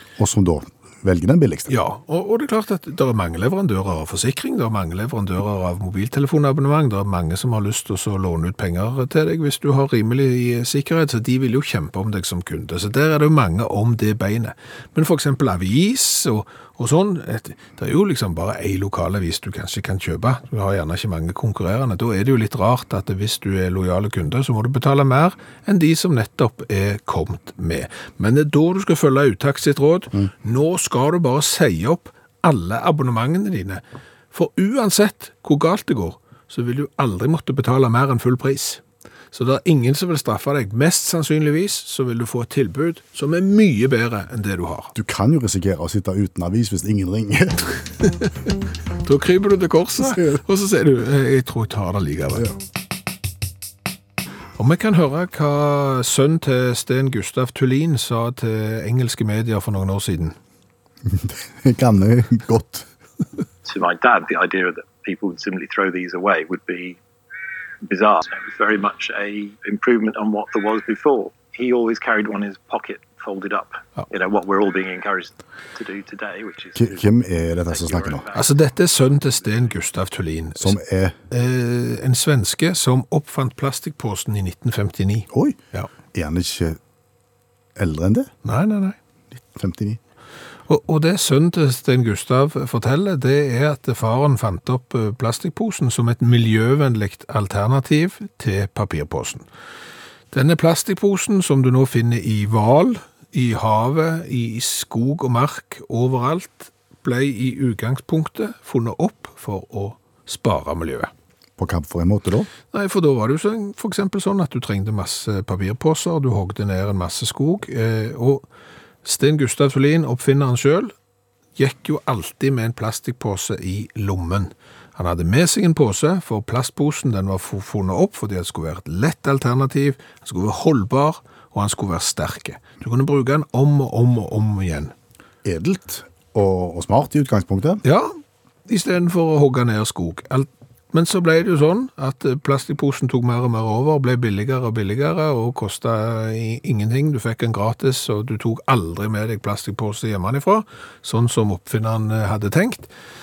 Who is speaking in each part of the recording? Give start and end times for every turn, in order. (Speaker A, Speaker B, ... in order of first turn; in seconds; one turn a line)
Speaker A: 0.2-1.7
Speaker B: 1.7-33.8
Speaker B: 34.3-44.9
Speaker A: 44.9-47.9
Speaker B: 49.0-52.5
Speaker B: 54.6-60.3
Speaker A: 61.0-62.9
Speaker C: 63.6-67.0
Speaker C: 67.8-77.0
Speaker A: 76.7-78.2
Speaker C: 77.7-78.5
Speaker B: 78.3-80.8
Speaker A: 80.6-81.1
Speaker B: 81.3-85.9
Speaker A: 85.3-85.6
Speaker A: 86.1-86.8
Speaker A: 87.8-88.3
Speaker B: 88.4-89.0
Speaker A: 89.5-90.0
Speaker B: 90.7-99.4
Speaker B: 100.3-111.1
Speaker A: 111.6-112.5
Speaker B: 112.7-118.5
Speaker B: 119.0-120.9
Speaker B: 121.5-134.9
Speaker A: 135.4-137.8
Speaker B: 137.8-138.1
Speaker B: 138.7-152.9